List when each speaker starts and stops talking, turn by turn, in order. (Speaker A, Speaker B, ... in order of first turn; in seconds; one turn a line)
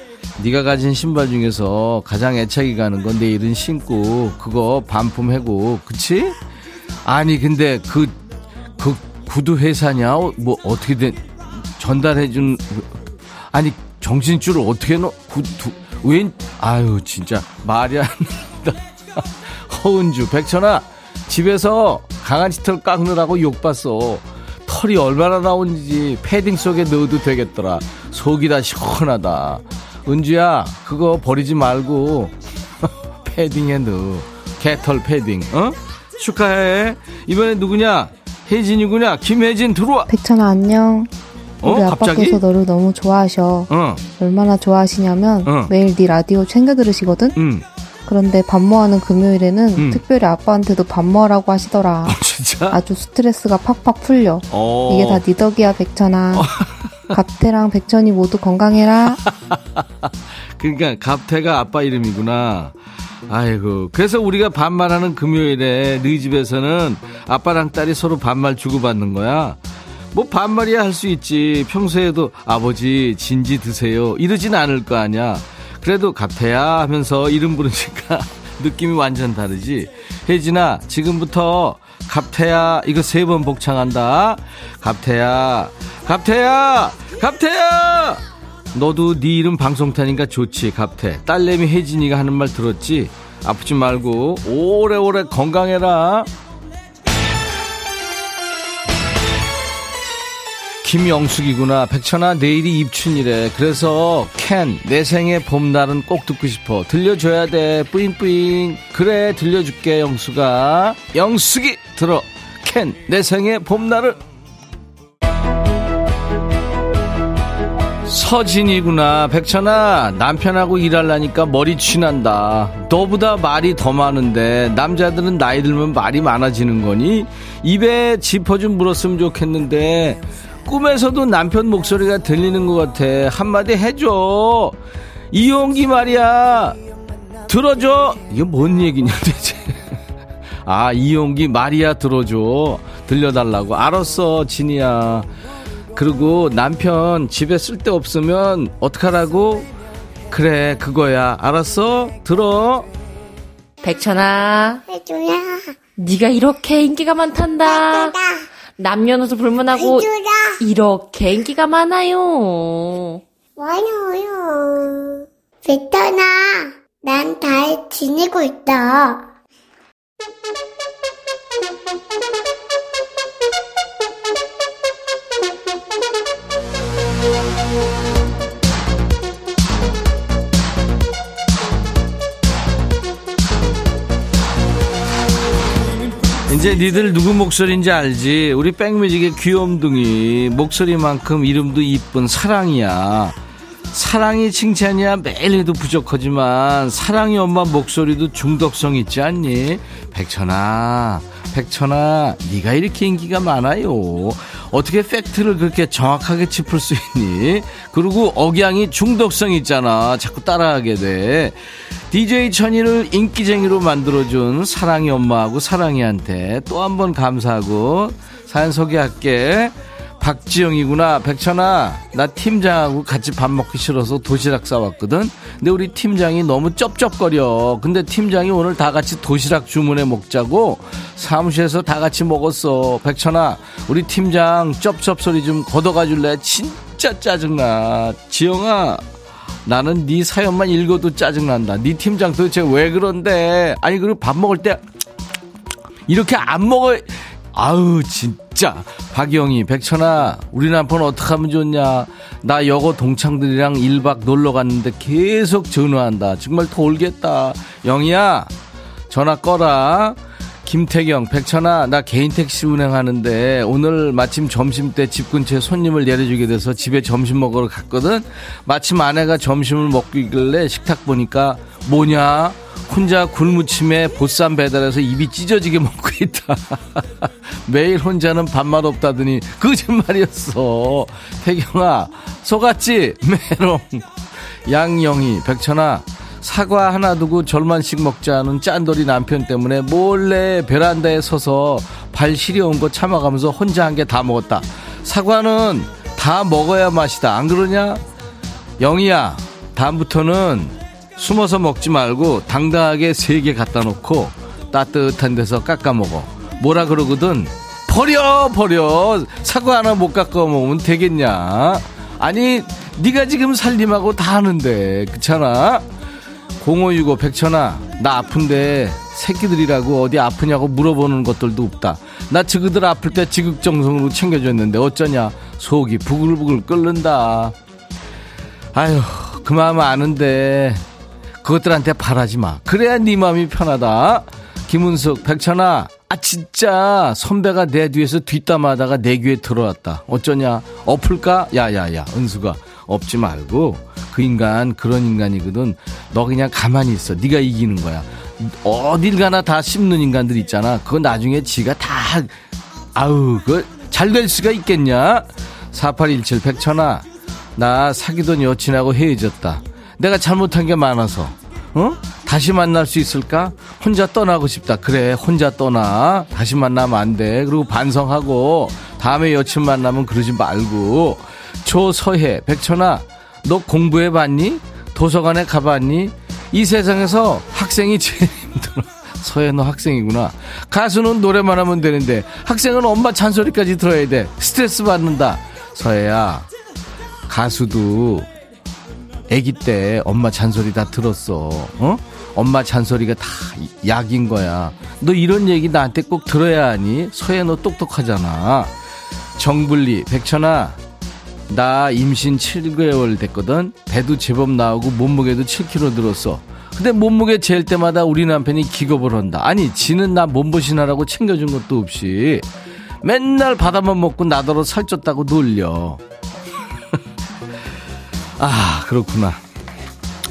Speaker A: 0.4-6.4
Speaker A: 7.0-8.2
Speaker A: 8.8-13.0
Speaker A: 13.5-40.1
Speaker B: 40.1-41.1
Speaker A: 41.6-42.4
Speaker B: 41.6-47.4
Speaker A: 43.7-44.0
Speaker A: 45.4-45.7
Speaker A: 47.3-47.6
Speaker B: 48.0-52.2
Speaker A: 49.8-50.0
Speaker A: 52.0-52.8
Speaker B: 52.7-56.5
Speaker A: 54.5-55.2
Speaker A: 56.3-57.2
Speaker B: 57.1-59.2
Speaker A: 59.2-59.8
Speaker A: 60.6-62.7
Speaker A: 63.3-69.6
Speaker A: 70.1-88.2
Speaker A: 88.7-96.3
Speaker A: 100.8-114.2
Speaker A: 118.0-134.8
Speaker A: 135.3-136.8
Speaker A: 137.5-140.0
Speaker A: 140.6-145.3
Speaker A: 145.9-149.7
Speaker A: 150.3-152.9
Speaker C: 153.8-154.8
Speaker D: 154.9-155.7
Speaker C: 156.0-158.2
Speaker D: 157.6-158.4
Speaker C: 158.8-160.1
Speaker D: 159.7-160.6
Speaker C: 160.6-163.2
Speaker D: 163.6-169.3
Speaker A: 186.5-193.3
Speaker A: 193.9-239.0
Speaker A: 239.6-244.8
Speaker A: 246.1-258.5
Speaker A: 259.1-284.1
Speaker A: 284.7-298.0
Speaker A: 298.8-315.8
Speaker A: 316.6-327.5
Speaker A: 328.7-330.8
Speaker A: 331.4-352.3
Speaker A: 352.9-357.0
Speaker A: 357.6-386.5
Speaker A: 387.3-388.3
Speaker A: 389.3-398.7
Speaker A: 399.4-400.8
Speaker A: 401.5-412.4
Speaker A: 413.0-416.0
Speaker A: 418.4-419.4